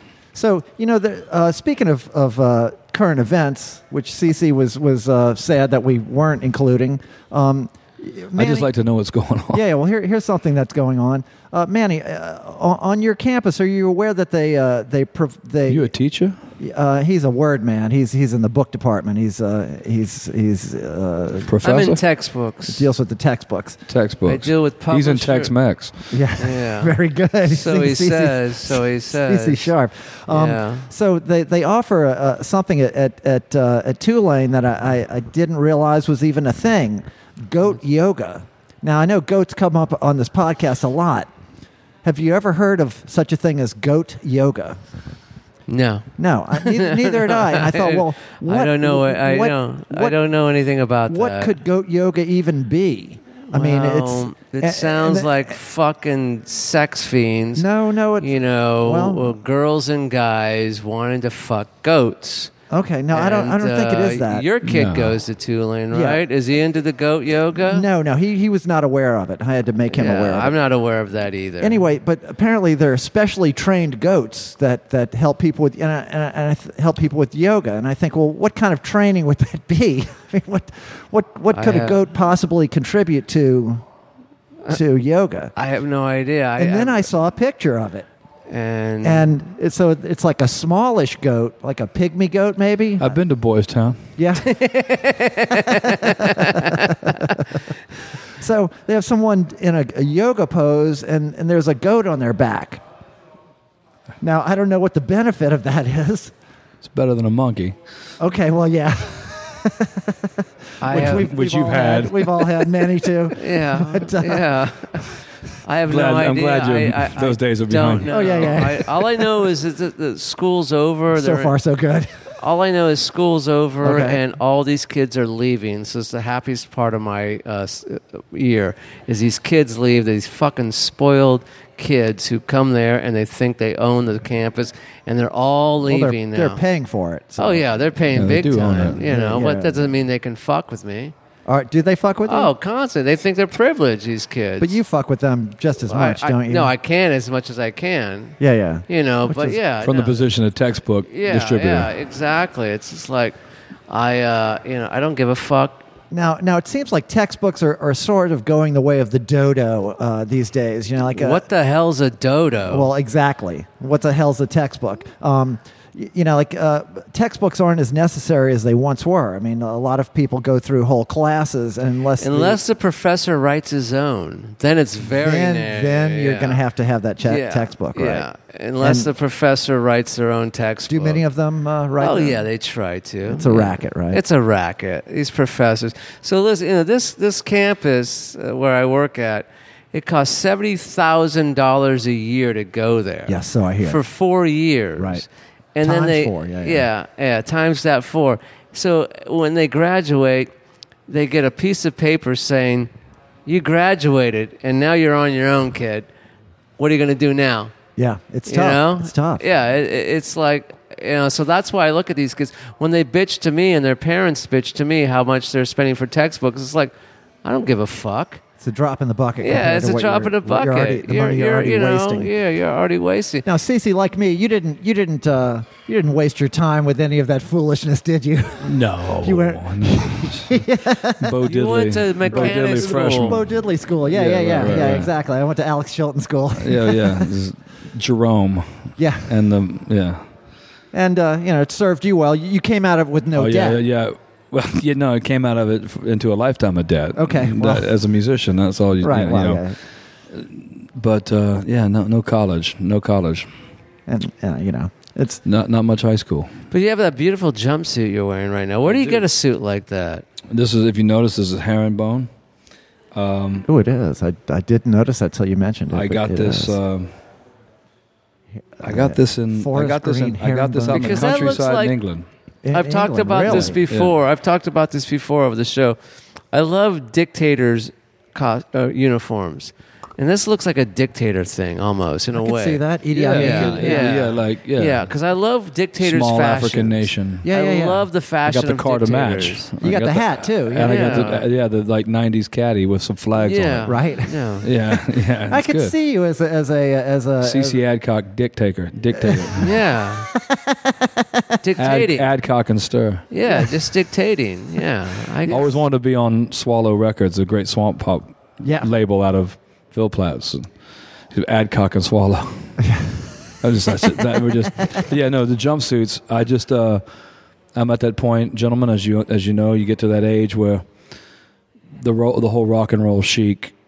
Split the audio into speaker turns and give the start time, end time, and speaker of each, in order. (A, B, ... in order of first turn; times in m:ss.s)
0:00.3-0:08.7 A
0:08.3-0:09.6 B
0:09.5-0:15.9 A
0:15.7-0:16.4 B
0:16.6-0:21.5 A
0:21.4-0:22.0 B
0:21.6-0:22.9 C
0:22.7-0:23.8 A
0:23.9-0:26.1 B
0:24.2-0:25.5 C
0:26.1-0:41.3 A
0:26.4-0:29.7 C
0:30.3-0:30.9 C
0:42.0-0:44.8 A
0:45.7-0:51.6 C
0:46.2-0:50.2 A
0:51.1-0:55.5 A
0:53.5-0:57.7 C
0:57.6-0:59.4 A
0:58.2-1:02.5 C
1:02.7-1:04.5 A
1:03.1-1:07.8 C
1:04.6-1:05.2 B
1:05.9-1:06.2 A
1:07.5-1:10.6 A
1:09.9-1:11.8 C
1:11.6-1:23.8 A
1:21.5-1:22.0 C
1:24.7-1:25.5 A
1:25.5-1:27.1 C
1:26.6-1:28.1 A
1:28.5-1:29.3 C
1:29.0-1:33.2 A
1:33.0-1:34.0 B
1:34.2-1:34.5 A
1:34.4-1:37.4 C
1:35.7-1:37.4 A
1:38.4-1:42.8 A
1:44.2-1:46.3 A
1:46.8-1:47.8 B
1:48.2-1:54.5 A
1:50.8-1:51.3 C
1:50.9-1:52.7 B
1:53.3-1:55.0 C
1:55.6-2:01.5 C
1:55.9-1:58.6 B
1:58.1-1:59.3 A
2:01.1-2:02.2 A
2:02.4-2:16.6 C
2:03.8-2:04.2 A
2:15.8-2:17.7 A
2:17.4-2:21.1 C
2:18.1-2:19.0 B
2:19.0-2:19.9 A
2:21.4-2:22.5 A
2:22.3-2:24.8 C
2:24.6-2:26.7 A
2:25.8-2:30.2 C
2:28.4-2:29.6 A
2:29.8-2:31.9 B
2:31.0-2:33.4 C
2:33.9-2:35.8 C
2:36.1-2:41.4 A
2:41.0-2:42.9 C
2:42.7-2:52.6 A
2:52.2-2:56.6 C
2:55.1-2:58.3 A
2:57.2-3:01.2 C
2:58.8-2:59.1 A
3:00.9-3:02.4 A
3:02.0-3:20.5 C
3:03.3-3:04.2 A
3:13.3-3:14.0 A
3:15.0-3:15.2 A
3:15.8-3:16.9 A
3:21.1-3:22.9 C
3:23.4-3:26.1 C
3:26.8-3:27.7 C
3:28.0-3:29.4 A
3:28.5-3:38.4 C
3:38.6-3:42.3 A
3:39.4-3:43.4 C
3:43.4-3:51.4 A
3:48.6-3:50.6 B
3:51.2-3:55.1 B
3:51.4-3:53.4 C
3:52.3-3:57.3 A
3:56.6-4:00.2 B
3:59.0-3:59.3 A
4:00.9-4:03.8 A
4:03.3-4:09.6 B
4:07.1-4:07.9 A
4:09.0-4:09.8 A
4:10.3-4:13.5 B
4:14.1-4:15.4 A
4:15.4-4:16.5 B
4:16.7-4:20.2 C
4:18.8-4:19.2 B
4:20.5-4:22.3 B
4:23.1-4:23.7 B
4:23.7-4:26.8 A
4:25.9-4:27.1 B
4:28.8-4:31.4 A
4:28.8-4:32.2 B
4:30.9-4:32.0 C
4:32.6-4:33.8 A
4:32.7-4:36.0 C
4:33.4-4:34.1 B
4:36.5-4:49.7 C
4:42.3-4:44.1 A
4:43.2-4:45.1 B
4:46.0-4:47.4 B
4:47.4-4:48.0 A
4:48.4-4:54.0 B
4:49.8-4:51.4 A
4:50.8-4:51.4 C
4:53.4-4:54.7 C
4:53.9-4:57.8 A
4:54.6-4:55.9 B
4:57.4-4:59.7 B
4:59.1-4:59.6 A
4:59.6-5:00.3 C
5:00.3-5:01.5 A
5:01.6-5:02.2 C
5:01.8-5:03.2 B
5:03.3-5:05.7 C
5:05.5-5:10.7 B
5:08.6-5:08.9 A
5:11.3-5:12.9 B
5:13.6-5:17.0 B
5:17.7-5:20.8 B
5:22.0-5:23.7 B